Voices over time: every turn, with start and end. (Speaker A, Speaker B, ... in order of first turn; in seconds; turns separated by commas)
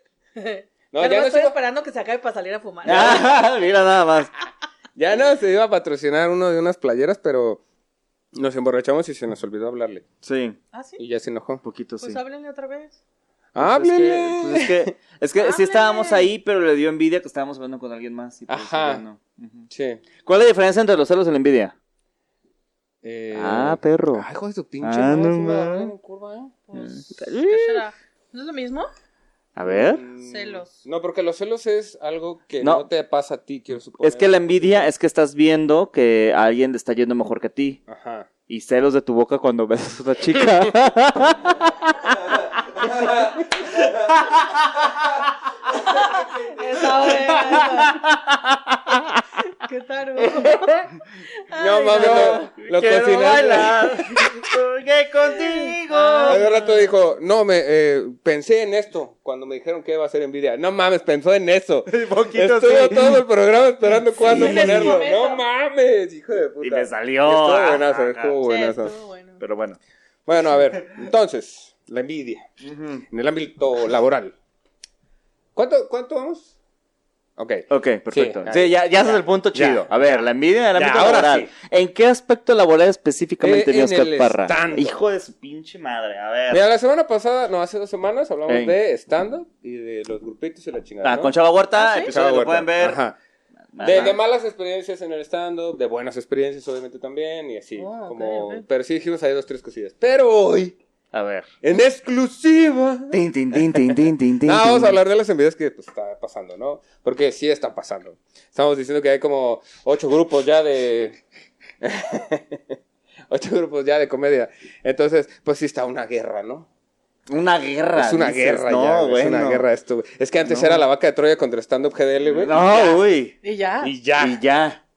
Speaker A: 0.4-3.5, Speaker B: 0.9-1.6, Speaker C: 2.9-4.3, Speaker B: 5.0-7.6, Speaker B: 8.3-10.1, Speaker C: 10.2-10.6, Speaker A: 10.7-11.0, Speaker B: 11.0-11.6, Speaker C: 11.6-12.2, Speaker A: 12.0-13.0, Speaker B: 13.6-14.9, Speaker C: 13.6-19.7, Speaker A: 15.4-16.3, Speaker B: 18.5-19.0, Speaker B: 19.7-20.0, Speaker C: 20.2-21.7, Speaker B: 23.0-26.5, Speaker C: 23.3-24.3, Speaker C: 24.8-25.9, Speaker A: 26.7-28.9, Speaker C: 26.7-27.8, Speaker C: 29.6-30.0, Speaker B: 29.6-34.9, Speaker A: 30.2-30.9, Speaker C: 34.0-37.8, Speaker B: 37.9-38.3, Speaker C: 38.5-45.1, Speaker B: 43.0-43.4, Speaker A: 45.8-48.0, Speaker C: 46.9-49.2, Speaker A: 49.5-52.5, Speaker B: 51.6-54.3, Speaker C: 51.9-56.4, Speaker A: 55.2-56.9, Speaker B: 56.3-69.0, Speaker C: 61.9-63.2, Speaker A: 64.2-65.4, Speaker C: 64.2-65.0, Speaker C: 66.6-68.4, Speaker A: 68.4-69.4, Speaker C: 69.4-69.8, Speaker B: 70.3-72.5, Speaker C: 72.6-73.0, Speaker B: 73.1-74.3, Speaker B: 75.6-76.5, Speaker B: 77.4-79.9, Speaker C: 77.7-86.6, Speaker B: 80.8-81.5, Speaker B: 83.4-85.0, Speaker B: 86.5-91.3, Speaker C: 88.5-88.8, Speaker C: 91.0-93.0, Speaker A: 91.7-92.1, Speaker B: 92.1-93.2, Speaker C: 93.7-94.2, Speaker B: 93.8-100.8, Speaker A: 97.8-98.6, Speaker C: 101.1-101.5, Speaker B: 101.6-103.2, Speaker C: 103.1-105.0, Speaker B: 104.4-111.2, Speaker B: 111.8-112.8, Speaker B: 113.3-116.7, Speaker C: 117.3-119.6, Speaker B: 118.0-122.6, Speaker C: 120.5-120.8, Speaker C: 122.3-123.3, Speaker A: 123.4-123.9, Speaker B: 123.8-124.4, Speaker C: 124.2-124.8